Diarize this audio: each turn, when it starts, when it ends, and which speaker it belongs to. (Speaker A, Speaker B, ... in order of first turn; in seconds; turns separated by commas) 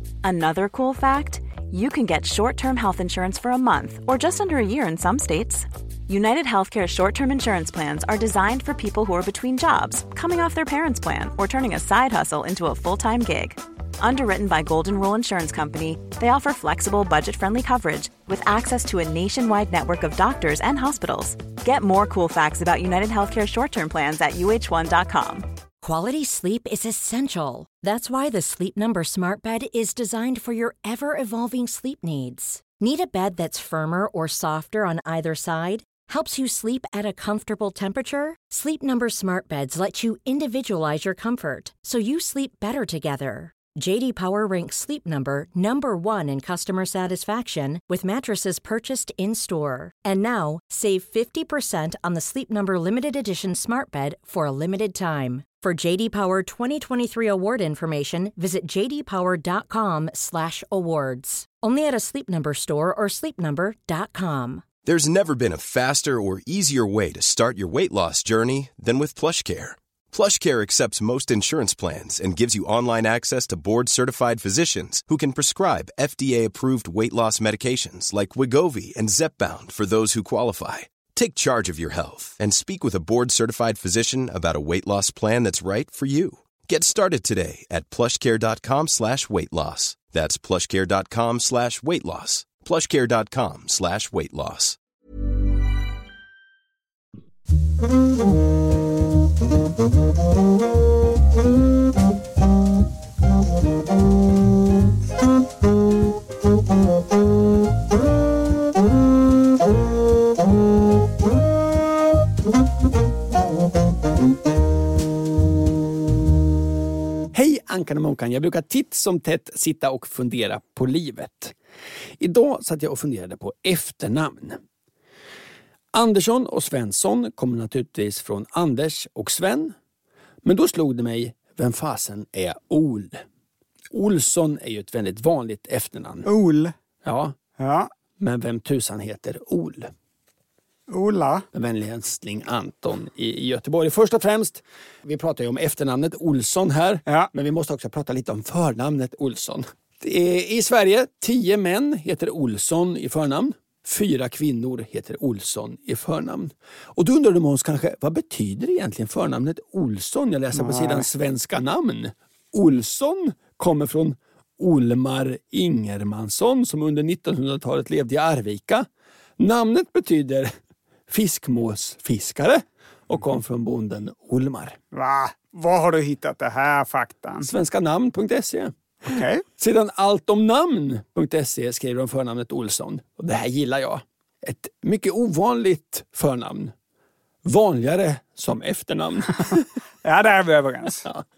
Speaker A: 0.2-25.5, Speaker B: 25.8-64.7, Speaker C: 64.8-94.8, Speaker D: 117.3-121.5, Speaker D: 122.2-124.6, Speaker D: 125.9-129.8, Speaker D: 130.4-133.2, Speaker D: 133.9-136.3, Speaker E: 136.2-136.7, Speaker D: 137.0-137.3, Speaker E: 137.6-137.9, Speaker D: 138.2-139.9, Speaker E: 140.9-141.4, Speaker D: 141.5-168.9, Speaker E: 160.5-161.1, Speaker D: 169.4-170.5, Speaker D: 171.1-174.8, Speaker E: 174.9-177.5, Speaker D: 177.4-178.7, Speaker E: 179.1-179.4, Speaker D: 179.6-186.7, Speaker D: 187.4-189.7, Speaker E: 190.0-191.1